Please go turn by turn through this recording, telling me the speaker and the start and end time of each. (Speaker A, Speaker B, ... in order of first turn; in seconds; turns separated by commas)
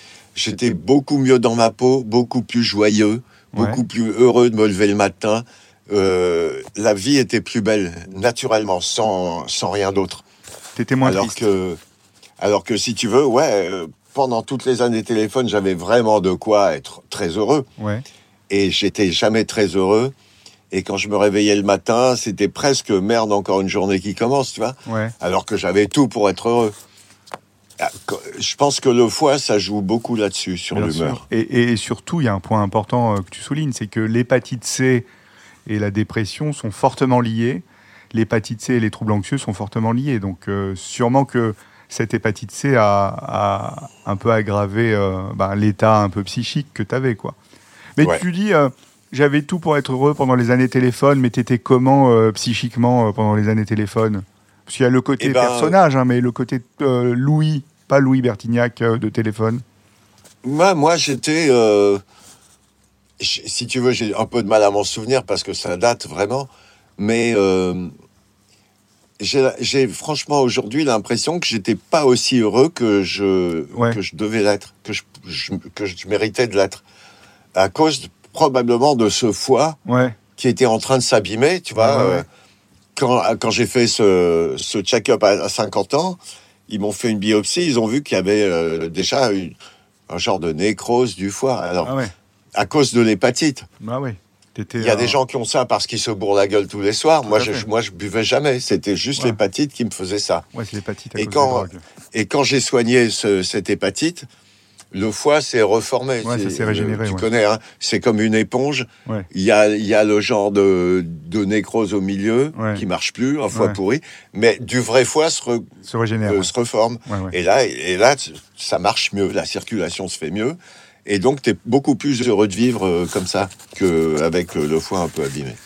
Speaker A: 0.3-10.2, Speaker B: 3.5-3.8, Speaker B: 10.8-11.4, Speaker A: 11.0-11.8, Speaker A: 12.4-17.7, Speaker B: 17.8-18.0, Speaker A: 18.5-20.1, Speaker A: 20.7-26.7, Speaker B: 24.9-25.1, Speaker A: 27.8-31.2, Speaker B: 30.7-35.1, Speaker B: 35.6-47.4, Speaker B: 48.0-59.6, Speaker A: 55.2-55.8, Speaker A: 60.4-62.0, Speaker A: 63.2-67.9, Speaker A: 69.2-76.8, Speaker B: 73.7-74.0, Speaker A: 77.5-79.8, Speaker B: 79.9-80.2, Speaker A: 80.4-82.2, Speaker B: 81.8-82.2, Speaker A: 82.9-89.6, Speaker A: 90.1-91.9, Speaker B: 91.8-92.1, Speaker A: 92.6-93.7, Speaker B: 93.8-95.2, Speaker A: 94.8-100.5, Speaker B: 97.3-97.7, Speaker B: 100.5-101.8, Speaker A: 101.2-104.3, Speaker A: 104.9-115.7, Speaker B: 106.2-107.3, Speaker B: 112.5-112.8, Speaker B: 113.5-113.8, Speaker B: 115.8-116.5, Speaker A: 116.3-125.6, Speaker B: 117.1-117.3